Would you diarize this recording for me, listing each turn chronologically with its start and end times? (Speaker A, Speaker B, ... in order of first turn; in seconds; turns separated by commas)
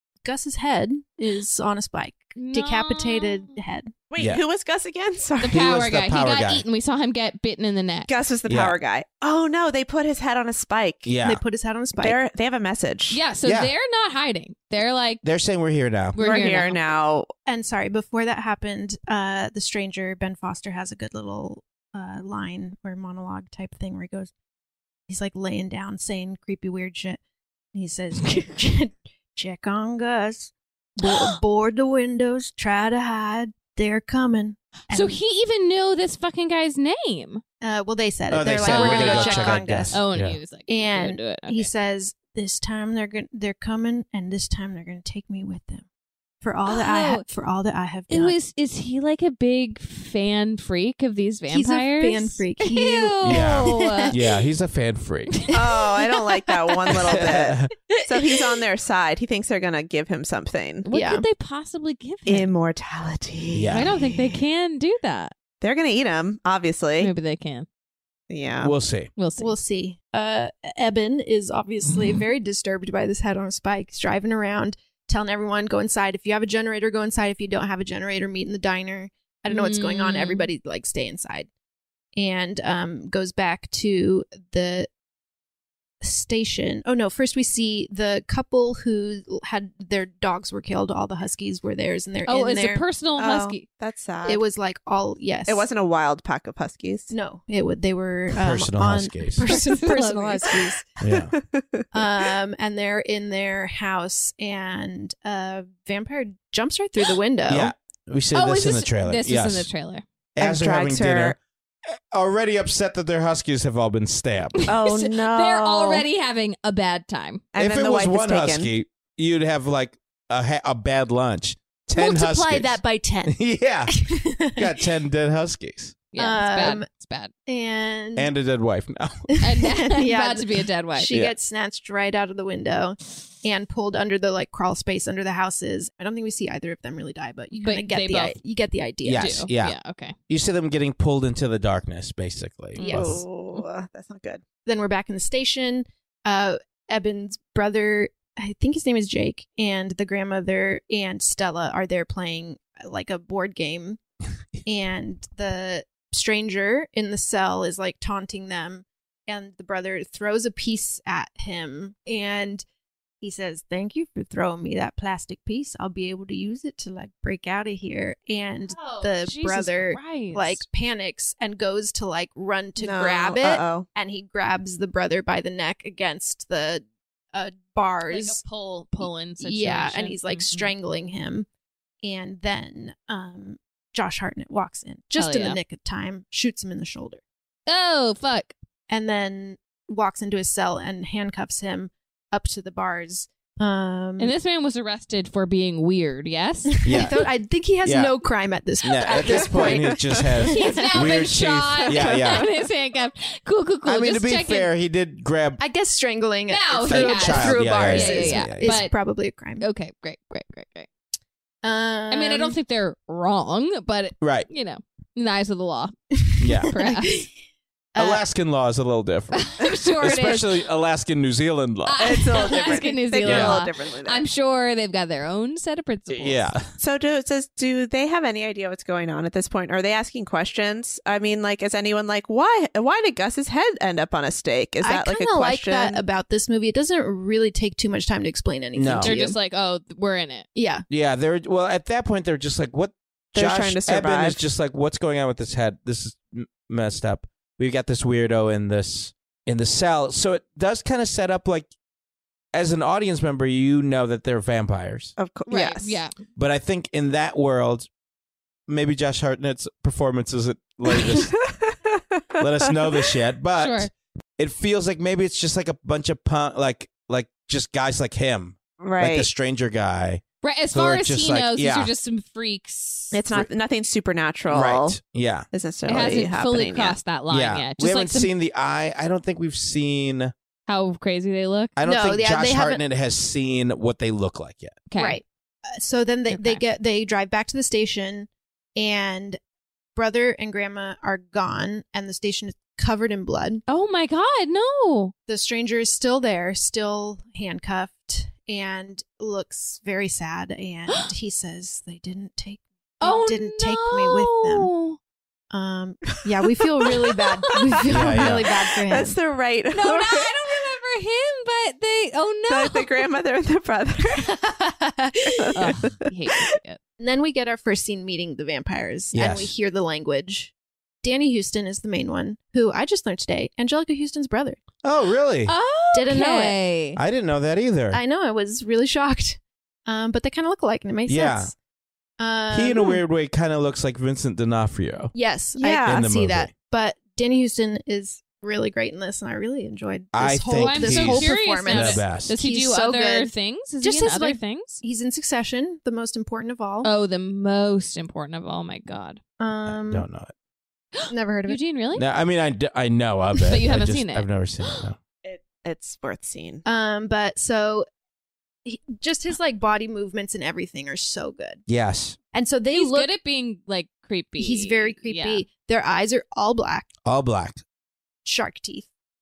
Speaker A: 0.2-3.9, Speaker B: 2.4-3.5, Speaker C: 4.1-5.6, Speaker D: 4.2-4.4, Speaker B: 5.4-8.1, Speaker D: 5.4-6.6, Speaker C: 8.1-11.1, Speaker D: 8.5-8.8, Speaker D: 11.0-11.4, Speaker A: 11.2-12.2, Speaker C: 12.0-13.2, Speaker B: 13.1-15.2, Speaker D: 13.4-13.7, Speaker D: 15.2-16.2, Speaker B: 16.1-16.8, Speaker C: 16.2-17.3, Speaker A: 17.4-24.3, Speaker A: 25.1-27.2, Speaker A: 27.7-35.2, Speaker B: 34.9-37.4, Speaker A: 37.6-40.0, Speaker D: 38.3-40.4, Speaker B: 38.6-41.6, Speaker A: 40.7-45.9, Speaker A: 46.4-48.4, Speaker B: 46.7-47.2, Speaker B: 48.1-54.1, Speaker A: 51.5-54.2, Speaker D: 53.2-55.3, Speaker C: 55.5-60.9, Speaker D: 57.1-57.7, Speaker B: 60.9-62.5, Speaker A: 60.9-61.2, Speaker C: 62.2-64.1, Speaker D: 63.5-63.9, Speaker B: 63.7-65.3, Speaker C: 65.6-67.1, Speaker B: 67.0-67.7, Speaker C: 68.3-68.7, Speaker D: 68.6-69.1, Speaker B: 69.2-69.5, Speaker A: 69.4-81.5, Speaker B: 79.5-80.5, Speaker A: 82.2-84.9, Speaker A: 86.0-92.8, Speaker B: 92.3-93.6, Speaker C: 93.2-94.4, Speaker A: 94.2-95.6, Speaker C: 95.5-97.1, Speaker A: 97.1-100.8, Speaker D: 98.4-99.5, Speaker B: 99.4-100.5, Speaker D: 101.0-101.3, Speaker C: 101.1-101.8, Speaker A: 101.9-107.7, Speaker D: 107.5-109.7, Speaker B: 108.3-110.0, Speaker D: 110.3-111.4, Speaker C: 110.4-111.4, Speaker D: 111.9-114.6, Speaker B: 114.6-117.4, Speaker C: 114.7-116.0, Speaker C: 117.5-118.7, Speaker D: 117.5-126.0, Speaker A: 122.0-123.4, Speaker A: 124.0-124.7, Speaker B: 126.1-127.3, Speaker A: 126.2-126.8, Speaker A: 127.5-128.3, Speaker D: 128.2-129.1, Speaker B: 129.4-131.1, Speaker A: 129.4-139.5, Speaker D: 131.1-131.3, Speaker B: 137.5-138.4, Speaker D: 139.0-139.8, Speaker B: 139.2-140.2, Speaker D: 140.3-143.2, Speaker B: 142.8-143.6, Speaker A: 142.8-143.2, Speaker C: 142.9-144.4, Speaker A: 144.6-154.0, Speaker A: 154.6-162.6, Speaker A: 163.2-178.4, Speaker B: 168.7-170.6, Speaker C: 172.8-173.9, Speaker B: 178.1-180.7, Speaker A: 179.0-181.5, Speaker A: 182.0-187.2, Speaker B: 185.2-185.6, Speaker B: 187.7-188.5, Speaker A: 188.9-194.3, Speaker B: 194.2-197.1, Speaker A: 196.7-201.1, Speaker D: 196.8-197.2, Speaker D: 197.8-198.1, Speaker D: 198.8-202.4, Speaker C: 200.0-200.2, Speaker B: 200.5-204.7, Speaker D: 203.8-205.6, Speaker A: 205.6-209.7, Speaker B: 206.5-208.9, Speaker D: 206.9-208.8, Speaker B: 209.6-210.9, Speaker A: 211.6-212.6, Speaker B: 212.1-215.9, Speaker D: 214.2-214.5, Speaker A: 216.2-217.3, Speaker D: 216.4-216.7, Speaker B: 216.6-217.2, Speaker A: 217.9-218.2, Speaker D: 217.9-222.3, Speaker B: 219.3-220.6, Speaker B: 221.8-226.5, Speaker C: 222.0-224.2, Speaker D: 223.2-223.6, Speaker D: 226.1-226.6, Speaker C: 226.8-236.0, Speaker A: 234.8-239.4, Speaker D: 238.7-239.1, Speaker B: 239.0-240.5, Speaker A: 240.5-240.8, Speaker D: 240.9-251.7, Speaker C: 243.3-244.4, Speaker D: 252.5-255.1, Speaker C: 255.2-256.0, Speaker B: 255.5-256.1, Speaker D: 256.4-257.9, Speaker D: 258.7-261.4, Speaker C: 260.9-262.7, Speaker D: 262.4-271.9, Speaker B: 263.6-263.9, Speaker C: 268.8-269.3, Speaker B: 270.4-273.2, Speaker C: 273.1-275.0, Speaker D: 274.5-275.4, Speaker C: 275.5-277.0, Speaker B: 275.9-278.3, Speaker D: 277.3-280.3, Speaker B: 280.7-281.7, Speaker D: 281.8-284.8, Speaker A: 281.8-282.8, Speaker B: 284.9-285.2, Speaker A: 284.9-289.4, Speaker B: 286.3-286.6, Speaker A: 289.9-293.6, Speaker B: 293.7-295.1, Speaker A: 295.3-304.7, Speaker B: 303.0-305.0, Speaker A: 305.5-309.1, Speaker D: 307.9-308.4, Speaker C: 308.1-310.3, Speaker B: 309.7-312.9, Speaker C: 312.5-314.3, Speaker A: 314.2-315.5, Speaker C: 315.4-315.9, Speaker B: 315.5-316.8, Speaker A: 317.0-324.6, Speaker D: 319.1-319.5, Speaker D: 324.8-325.5, Speaker B: 325.5-327.0, Speaker A: 325.9-326.6, Speaker D: 326.9-328.0, Speaker A: 327.9-331.5, Speaker D: 331.1-331.5, Speaker A: 332.2-333.0, Speaker D: 332.5-335.1, Speaker A: 335.1-346.9, Speaker C: 335.6-336.0, Speaker D: 335.8-336.5, Speaker D: 340.1-342.3, Speaker B: 340.6-344.8, Speaker B: 346.8-349.2, Speaker A: 349.4-350.1, Speaker D: 349.6-350.3, Speaker B: 351.0-352.0, Speaker A: 351.1-351.6, Speaker D: 351.9-355.0, Speaker B: 353.4-354.3, Speaker C: 355.2-356.6, Speaker A: 356.6-357.9, Speaker A: 358.6-361.6, Speaker D: 361.7-362.2, Speaker A: 362.3-363.1, Speaker B: 362.7-365.4, Speaker A: 364.4-366.9, Speaker D: 367.0-367.6, Speaker A: 368.2-368.9